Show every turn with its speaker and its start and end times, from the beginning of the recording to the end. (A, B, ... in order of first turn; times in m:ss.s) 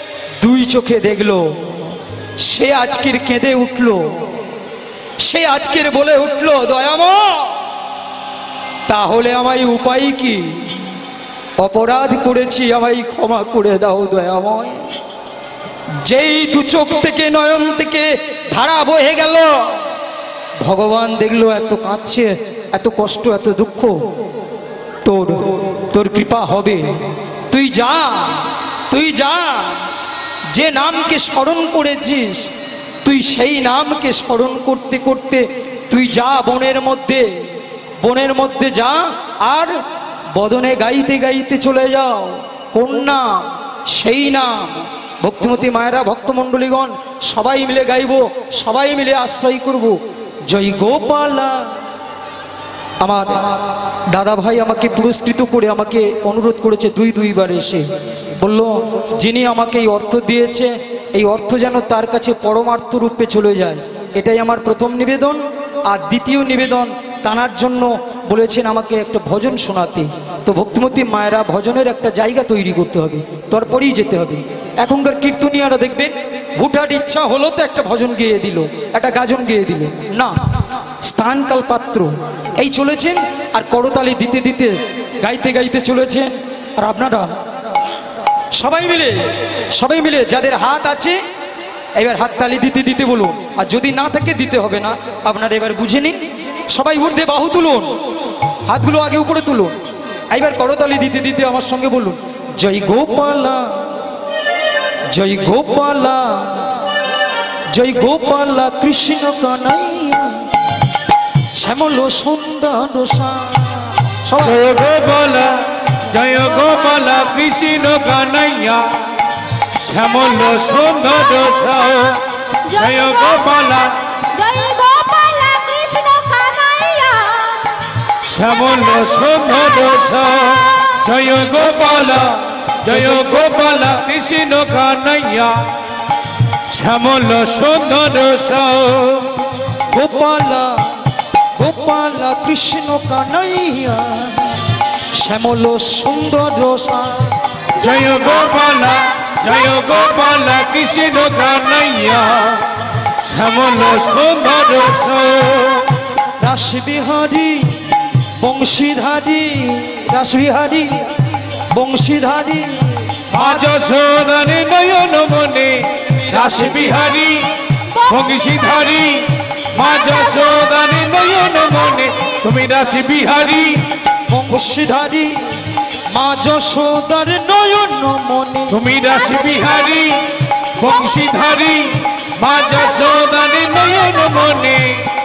0:00.4-0:04.0 A
0:05.2-0:07.6 A
0:08.9-0:10.6 A
0:11.6-0:14.8 A
0:16.0-0:19.7 A
0:20.6-0:24.0 A
0:25.0-0:26.8 A
0:27.5-0:29.8 A
0:30.5-0:32.4 A
0:33.0-0:37.3 A
0:38.0-0:39.7 A
0:40.4-0:51.7 A
0:53.0-1:20.4 A
1:21.0-1:27.3 A
1:28.5-1:31.2 A
1:32.0-1:37.9 A
1:38.6-1:39.7 A
1:40.3-1:43.8 A
1:45.1-1:46.7 A
1:47.7-1:50.4 A
1:51.6-1:54.6 A
1:54.4-1:58.9 B
1:59.8-2:04.0 B
2:02.7-2:07.8 C
2:08.2-2:15.6 B
2:08.8-2:10.5 C
2:11.6-2:12.3 A
2:16.7-2:19.6 B
2:19.9-2:20.9 A
2:21.6-2:24.6 A
2:25.1-2:27.3 A
2:27.8-2:32.7 B
2:33.2-2:36.0 B
2:36.4-2:41.1 A
2:41.7-2:43.6 A
2:43.3-2:47.5 B
2:46.2-2:47.1 A
2:47.9-2:48.6 C
2:48.1-2:53.8 B
2:54.3-2:55.4 A
2:56.1-2:58.8 A
2:58.7-3:05.0 B